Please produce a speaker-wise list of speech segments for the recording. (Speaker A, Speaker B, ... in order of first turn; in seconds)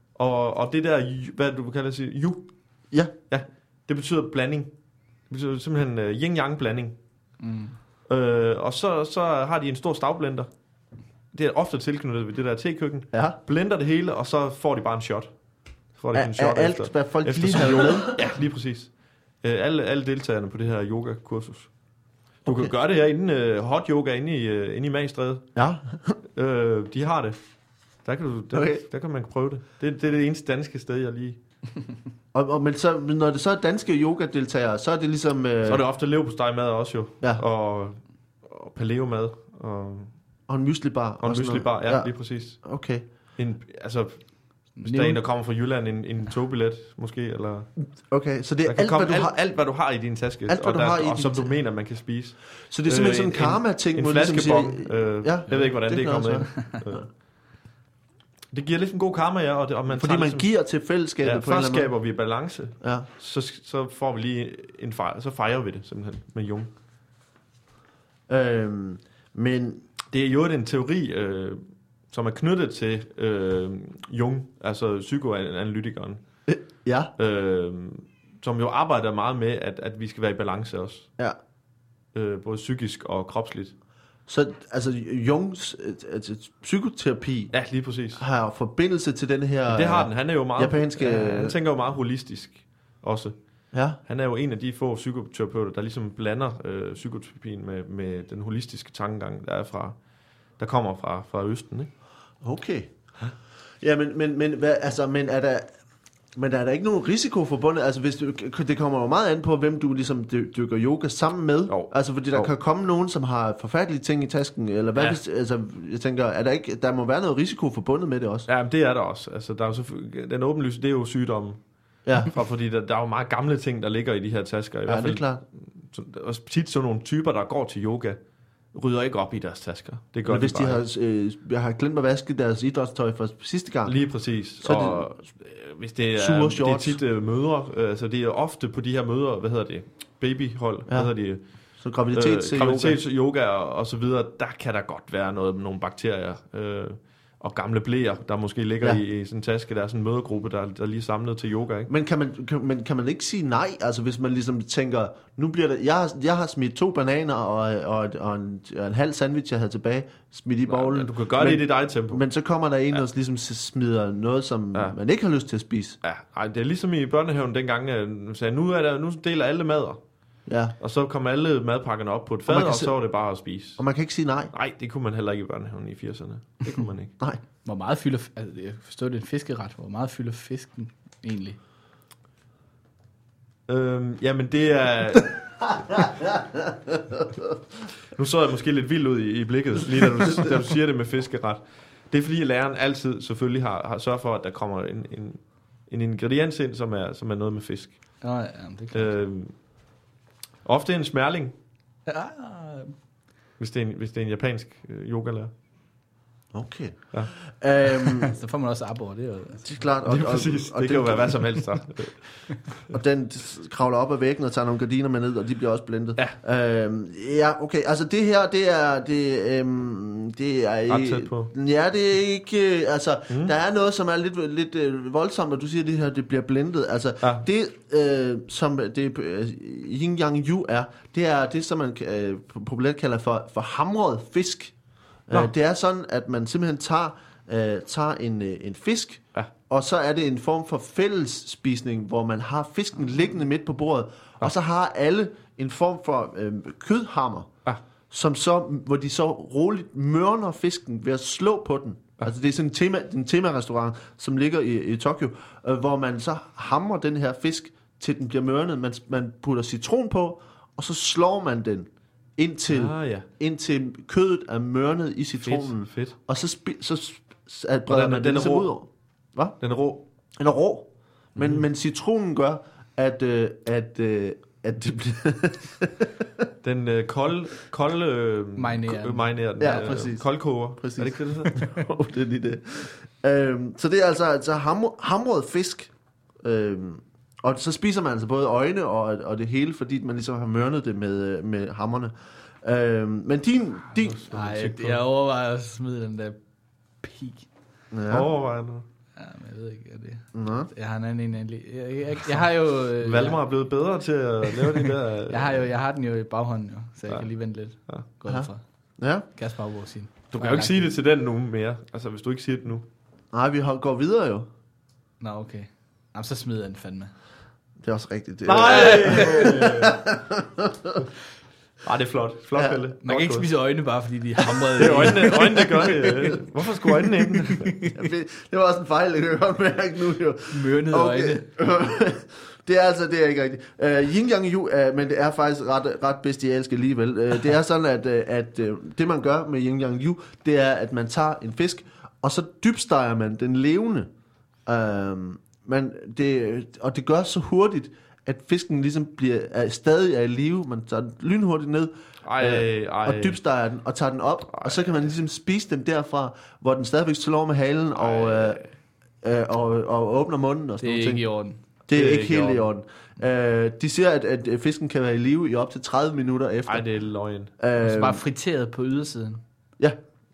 Speaker A: 0.1-4.7, 5.3-7.0, 8.1-10.5, 11.3-21.8, 22.4-25.6, 26.3-27.4, 28.0-31.4, 35.6-40.2, 41.2-42.8, 43.3-47.9, 48.6-57.1, 58.5-60.5, 61.2-66.7, 70.1-76.2, 77.2-81.1, 82.1-83.8, 87.5-88.2, 89.7-100.0, 100.6-101.9, 111.7-112.5, 118.5-121.6, 122.2-128.2, 128.7-130.8, 133.8-151.9, 160.7-162.2, 166.0-170.0, 170.8-173.8, 174.5-177.2, 183.7-186.0, 188.1-198.3, 198.9-199.7, 200.6-201.6, 203.6-205.5, 210.1-212.6, 220.9-221.5, 262.7-263.3, 265.4-266.2, 267.9-268.8, 269.6-270.0, 276.6-281.8, 293.9-295.0, 298.1-298.9, 303.0-305.7, 310.3-312.9, 318.5-320.0, 321.8-323.5, 324.8-327.8, 352.2-353.4, 354.5-354.9, 358.0-358.7, 361.9-362.7, 366.7-367.6
Speaker B: 7.4-7.8, 44.8-45.2, 177.6-181.6, 198.2-199.2, 202.1-203.0, 208.1-209.8, 278.6-280.2, 294.3-296.4, 297.0-297.5, 299.2-303.4, 304.5-308.6, 309.2-310.8, 315.2-317.2, 318.7-319.5, 323.0-326.4, 327.0-327.9, 330.5-331.5, 360.8-361.6, 367.8-369.4
Speaker C: 13.1-13.4, 16.1-18.2, 22.4-22.7, 25.6-26.2, 28.5-28.8, 32.3-35.8, 40.5-43.1, 47.8-49.4, 50.5-51.5, 52.7-57.0, 60.0-61.9, 62.8-63.1, 68.3-69.8, 76.5-77.1, 84.3-87.6, 88.1-91.6, 93.7-94.0, 102.4-102.9, 103.8-105.7, 106.3-118.5, 124.9-125.4, 130.2-134.0, 134.6-135.1, 136.2-137.0, 140.9-143.0, 151.9-166.0, 170.5-170.8, 172.5-172.9, 173.8-174.5, 186.0-186.4, 206.5-208.3, 209.7-211.6, 212.9-247.5, 248.1-269.6, 270.4-276.2, 279.6-285.9, 286.4-294.2, 297.9-298.3, 300.3-300.7, 308.3-309.3, 313.3-314.5, 317.8-321.0, 322.6-322.8, 325.3-325.9, 327.9-344.1, 344.7-366.9, 367.6-368.2